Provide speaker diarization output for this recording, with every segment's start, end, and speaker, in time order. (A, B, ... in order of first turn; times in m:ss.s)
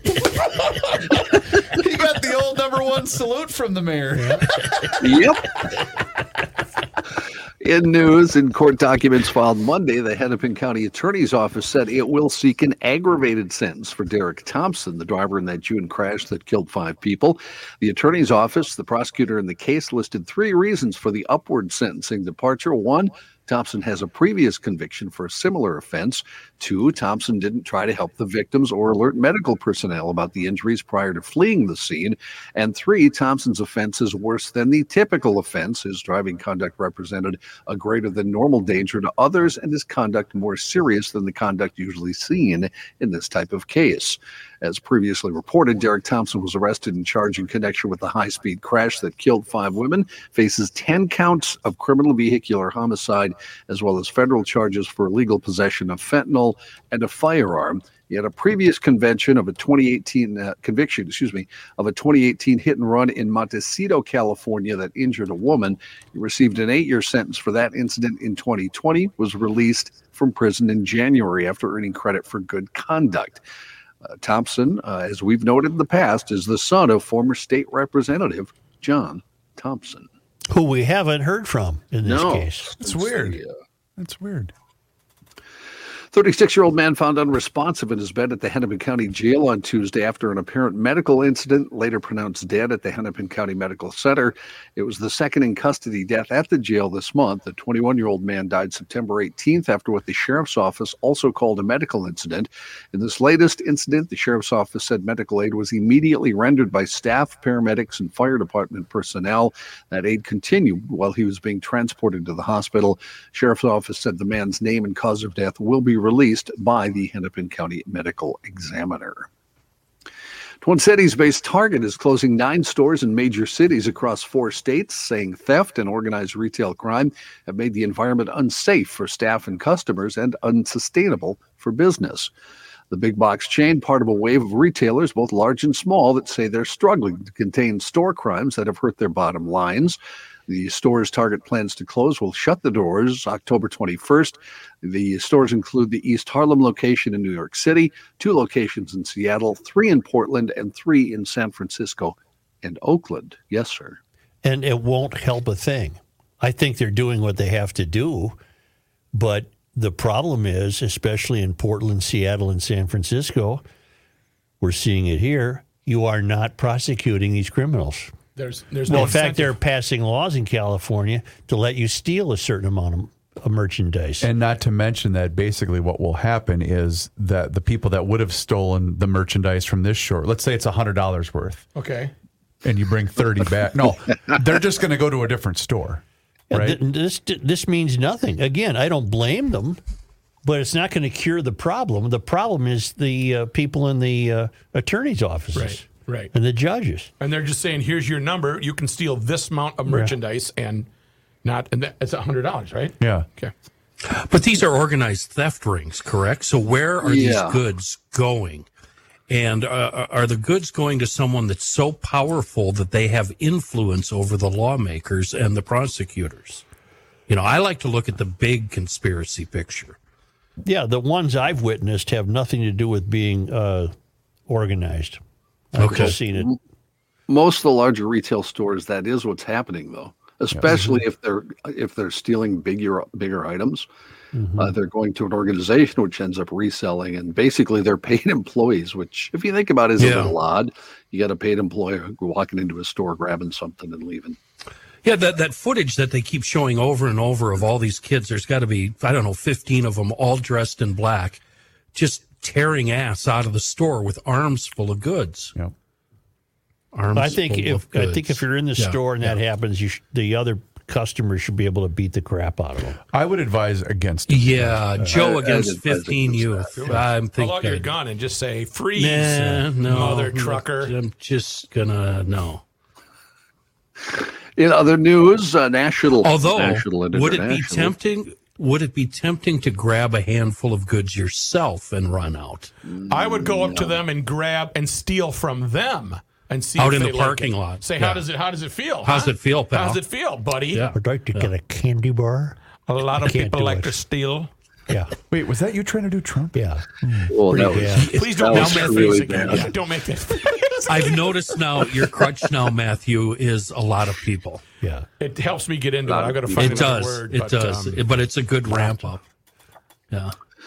0:00.4-0:05.0 A
0:04.1-0:04.4 B
0:05.0-0:05.6 C
0:07.6-1:13.4 C
1:14.0-1:20.1 C
1:20.5-1:22.7 B
1:22.0-1:23.5 C
1:22.8-1:23.4 A
1:24.0-1:24.5 A
1:26.1-1:59.3 C
2:00.6-2:12.3 C
2:12.9-2:34.0 C
2:34.4-2:38.4 B
2:39.1-2:43.6 B
2:44.6-2:48.1 B
2:48.4-2:49.6 D
2:48.9-2:54.3 B
2:54.2-3:01.6 A
3:01.7-3:02.1 D
3:02.6-3:06.8 A
3:06.5-3:09.8 B
3:10.4-3:17.1 B
3:15.5-3:16.3 D
3:17.2-3:20.9 D
3:19.8-3:20.1 B
3:21.4-3:23.5 D
3:23.0-3:23.2 A
3:24.0-3:28.7 E
3:27.0-3:27.6 C
3:29.3-3:36.6 E
3:37.3-3:40.0 E
3:40.6-3:43.9 B
3:44.5-3:45.2 B
3:45.7-3:46.5 B
3:45.8-3:46.2 E
3:45.9-3:46.6 C
3:47.3-3:53.9 C
3:50.7-3:51.0 B
3:54.3-3:54.7 B
3:54.6-4:04.4 C
4:00.0-4:00.4 E
4:05.0-4:11.4 E
4:11.9-4:15.5 E
4:16.9-4:19.3 E
4:17.1-4:23.0 B
4:23.1-4:24.9 A
4:24.3-4:27.9 E
4:25.1-4:26.7 C
4:26.8-4:30.9 D
4:29.0-4:32.6 E
4:34.0-4:38.0 C
4:36.2-4:42.7 E
4:42.8-4:44.0 C
4:43.1-4:50.9 D
4:46.8-4:48.2 E
4:49.0-4:50.0 E
4:50.7-4:51.5 E
4:50.9-4:52.6 B
4:52.9-4:54.5 D
4:53.2-4:54.0 B
4:55.3-4:56.6 A
4:56.5-4:58.1 B
4:57.3-4:59.6 C
4:58.0-5:01.1 D
4:58.0-4:58.9 E
5:00.9-5:04.6 E
5:05.2-5:08.0 D
5:06.0-5:06.9 C
5:06.5-5:09.2 E